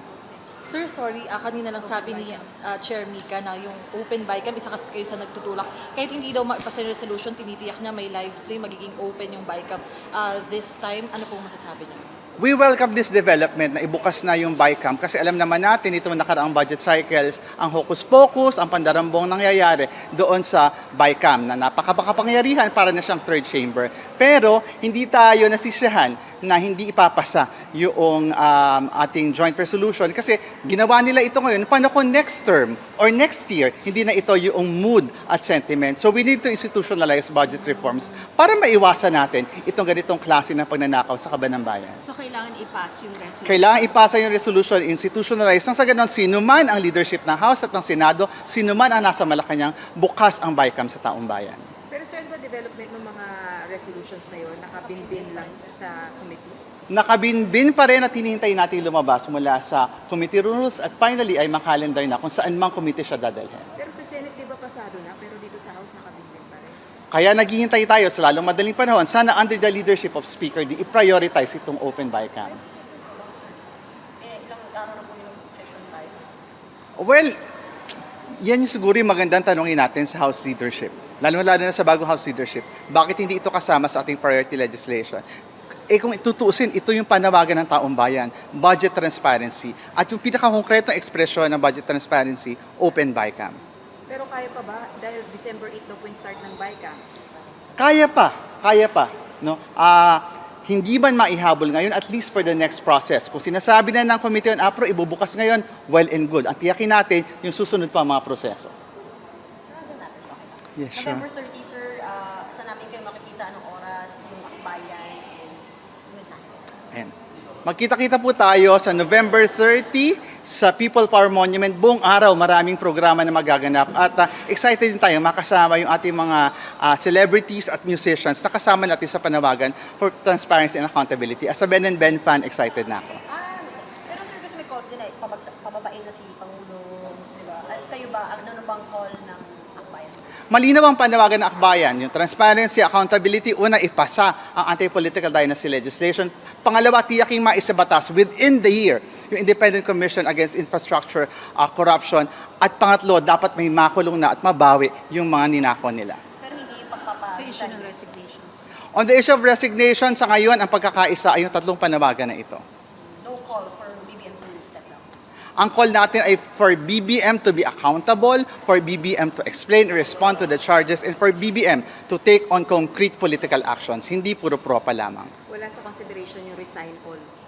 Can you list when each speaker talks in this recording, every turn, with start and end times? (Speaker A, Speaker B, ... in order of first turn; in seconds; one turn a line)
Speaker A: 0.7-12.1
Speaker B: 12.4-42.0
Speaker C: 42.1-43.4
Speaker B: 43.4-51.6
Speaker C: 51.9-56.6
Speaker D: 54.8-55.6
Speaker B: 56.9-63.7
Speaker C: 63.8-66.8
Speaker B: 67.1-72.6
Speaker D: 72.4-76.2
Speaker B: 77.0-77.3
Speaker B: 78.4-85.2
Speaker B: 85.9-93.6
Speaker C: 94.1-97.0
Speaker B: 97.8-108.7
Speaker D: 109.7-116.7
Speaker B: 110.8-111.2
Speaker B: 117.7-133.2
Speaker D: 133.3-140.2
Speaker B: 140.5-156.2
Speaker D: 156.4-158.2
Speaker C: 157.4-157.7
Speaker B: 158.9-162.6
Speaker D: 163.2-165.0
Speaker B: 165.6-175.3
Speaker C: 175.5-177.3